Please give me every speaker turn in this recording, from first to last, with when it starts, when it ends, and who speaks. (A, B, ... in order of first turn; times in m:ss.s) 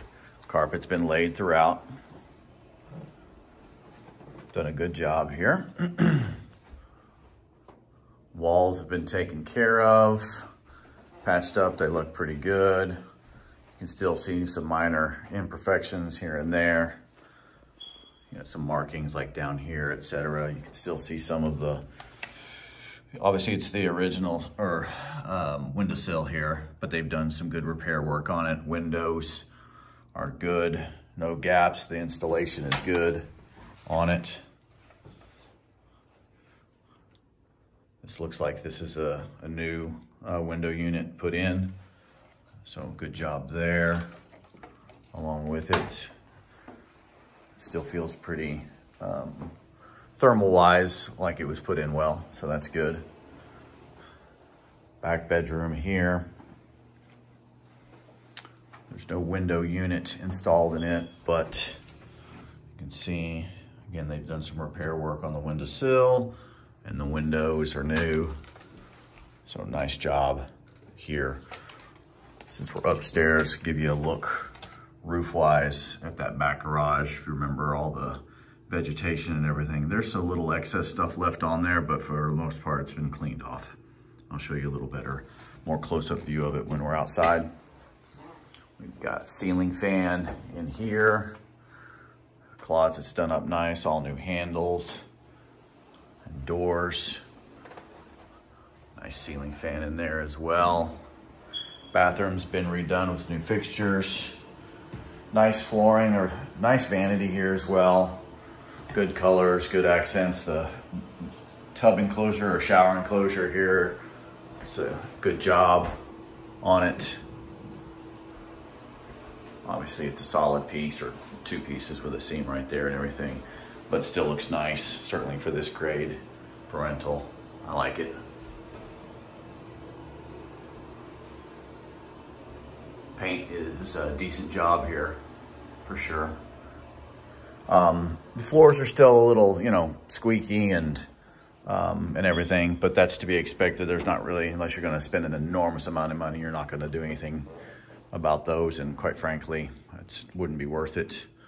0:00.5-0:01.8 A
0:04.5-0:06.4 A
0:08.3-0:10.4 A
0:11.2-0:13.0 A
0:13.8-0:17.0 A
0:18.3-0:21.8 A
0:23.1-0:29.5 A
0:30.1-0:33.3 A
0:33.9-0:34.4 A
0:38.0-0:41.7 A
0:42.6-0:44.1 A
0:45.1-0:46.1 A
0:47.6-0:49.5 A
0:50.2-0:53.1 A
0:55.0-0:56.3 A
0:58.9-1:01.8 A
1:02.7-1:08.3 A
1:09.4-1:11.4 A
1:12.5-1:23.8 A
1:24.3-1:27.5 A
1:28.8-1:31.4 A
1:32.6-1:35.0 A
1:36.2-1:37.2 A
1:39.0-1:41.0 A
1:41.9-1:44.4 A
1:45.3-1:48.2 A
1:48.9-1:50.8 A
1:51.7-1:54.0 A
1:54.6-1:55.9 A
1:56.6-1:57.2 A
1:59.6-2:08.2 A
2:13.2-2:15.2 A
2:15.8-2:16.4 A
2:17.7-2:21.1 A
2:21.6-2:27.5 A
2:28.1-2:31.3 A